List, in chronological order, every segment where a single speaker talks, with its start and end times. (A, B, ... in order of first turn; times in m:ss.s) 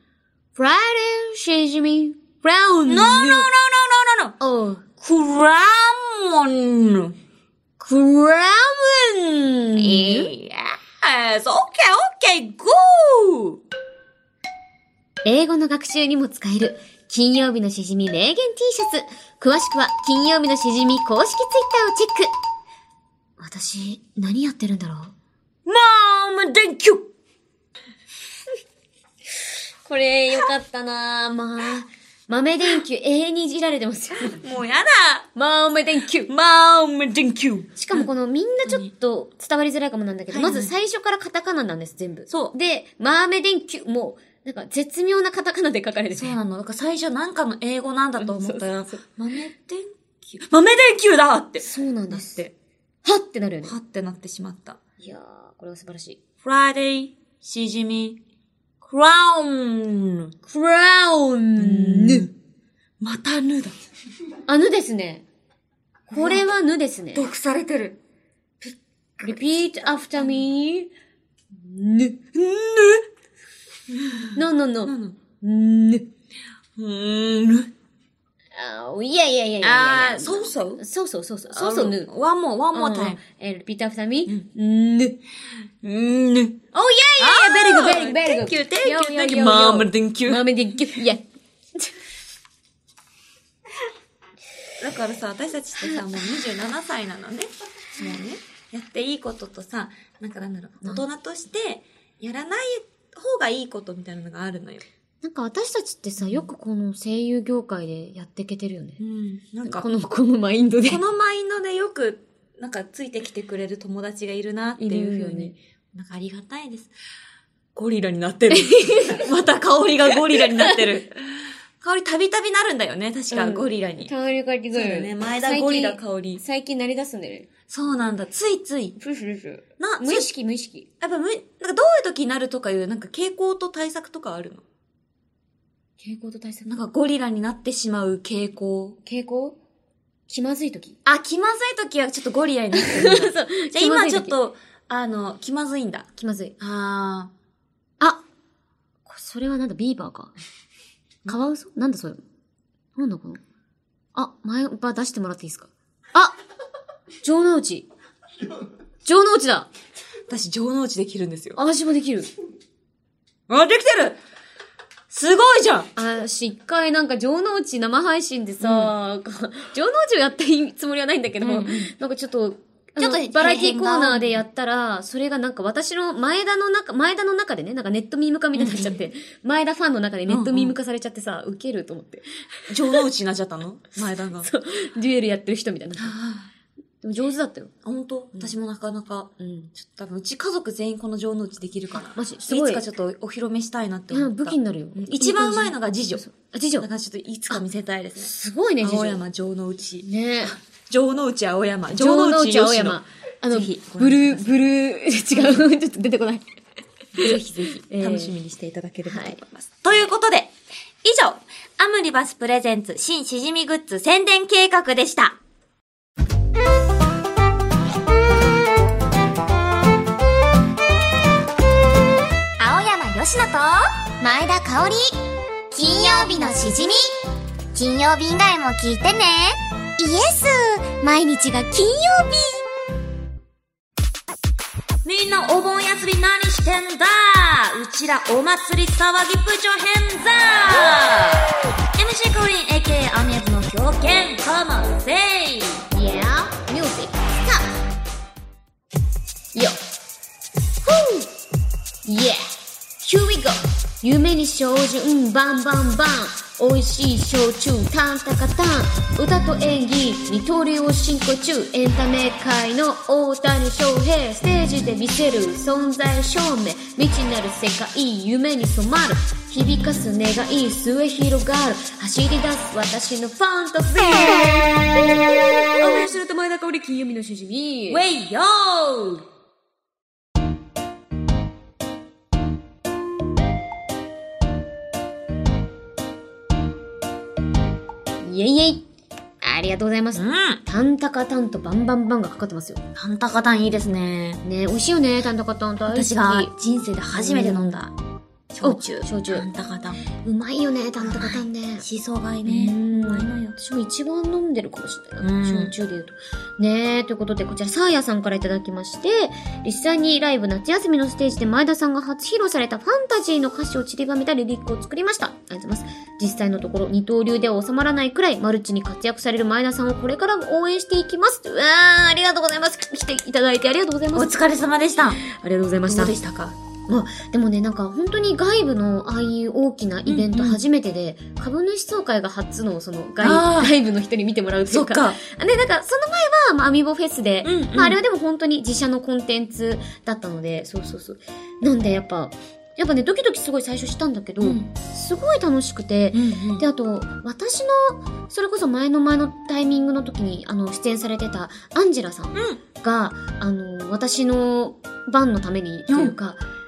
0:00.6-0:03.5 A
0:02.9-0:04.4 B
0:04.4-0:04.9 A
0:05.0-0:07.2 B
0:07.8-0:10.3 A
0:09.8-0:13.6 B
0:15.2-0:22.3 A
0:23.4-0:25.1 A
0:25.6-0:27.1 B
0:29.9-0:34.4 A
0:34.2-0:35.3 B
0:35.4-0:36.3 A
0:36.3-0:38.1 B
0:37.8-0:46.4 A
0:38.6-0:38.9 B
0:40.3-0:40.7 B
0:42.3-0:42.5 B
0:46.1-0:52.5 B
0:48.2-0:48.9 A
0:51.6-0:52.4 A
0:53.0-0:53.7 A
0:53.6-0:54.8 B
0:55.0-0:56.2 A
0:56.4-0:58.2 B
0:58.8-1:00.3 B
1:00.4-1:02.3 A
1:01.6-1:02.3 B
1:03.0-1:03.7 B
1:04.5-1:05.2 A
1:06.1-1:07.2 A
1:06.1-1:06.5 B
1:07.1-1:08.0 B
1:08.6-1:10.2 B
1:09.2-1:10.9 A
1:11.5-1:12.2 A
1:12.3-1:13.0 B
1:13.9-1:15.2 B
1:14.4-1:16.1 A
1:16.8-1:17.7 B
1:18.6-1:22.1 A
1:19.6-1:20.8 B
1:21.5-1:23.2 B
1:22.7-1:25.2 A
1:25.8-1:26.6 B
1:26.7-1:32.0 A
1:27.2-1:30.4 B
1:34.8-1:44.9 B
1:45.2-1:49.0 A
1:49.0-1:49.9 B
1:49.6-1:51.0 A
1:50.9-1:56.9 B
1:54.8-1:55.5 A
1:57.7-2:04.1 B
1:58.5-1:59.2 A
2:00.3-2:00.8 A
2:03.3-2:07.5 A
2:04.7-2:06.4 B
2:07.7-2:09.0 B
2:09.0-2:10.9 A
2:09.8-2:10.3 B
2:11.0-2:14.6 B
2:16.0-2:16.8 A
2:16.6-2:19.0 B
2:19.0-2:19.6 A
2:20.3-2:21.0 A
2:21.0-2:27.3 B
2:22.7-2:24.4 A
2:26.2-2:26.5 A
2:29.1-2:30.3 A
2:31.2-2:32.2 A
2:33.0-2:33.4 A
2:34.1-2:36.3 A
2:37.2-2:37.9 A
2:39.0-2:39.7 A
2:40.3-2:41.6 B
2:41.6-2:42.3 A
2:43.5-2:44.2 B
2:45.1-2:45.9 B
2:46.0-3:02.2 A
2:48.6-2:48.9 B
2:51.4-2:51.9 B
2:53.0-2:54.4 B
2:58.5-2:58.9 B
3:00.3-3:00.7 B
3:02.7-3:04.5 B
3:04.4-3:06.2 A
3:06.0-3:06.5 B
3:07.0-3:07.7 A
3:07.8-3:16.2 B
3:09.4-3:09.7 A
3:11.9-3:12.9 A
3:14.1-3:16.9 A
3:16.8-3:18.3 B
3:18.2-3:19.2 A
3:18.8-3:24.6 B
3:20.0-3:20.6 A
3:21.9-3:26.4 A
3:27.1-3:35.4 B
3:27.2-3:28.4 A
3:29.0-3:29.4 A
3:42.6-3:47.2 C
3:47.7-3:52.6 C
3:55.0-4:05.9 B
4:05.9-4:07.8 A
4:09.5-4:09.8 A
4:10.8-4:11.3 A
4:12.0-4:34.8 A
4:35.8-4:38.0 A
4:37.9-4:39.2 B
4:48.2-4:48.9 A
4:49.4-4:52.8 A
4:50.1-4:50.6 B
4:52.9-4:54.4 B
4:54.4-4:56.5 A
4:55.9-4:57.9 B
4:57.1-4:57.8 A
4:58.5-5:00.0 B
4:58.6-4:59.5 A
5:00.1-5:01.8 A
5:01.0-5:03.6 B
5:02.4-5:24.4 A
5:05.2-5:05.7 B
5:24.1-5:25.2 B
5:25.2-5:26.2 A
5:25.9-5:26.6 B
5:26.9-5:56.4 A
5:30.1-5:30.6 B
5:33.2-5:33.7 B
5:34.7-5:35.2 B
5:37.4-5:38.0 B
5:44.4-5:44.7 B
5:46.1-5:46.6 B
5:52.3-5:52.6 B
5:55.9-5:56.1 B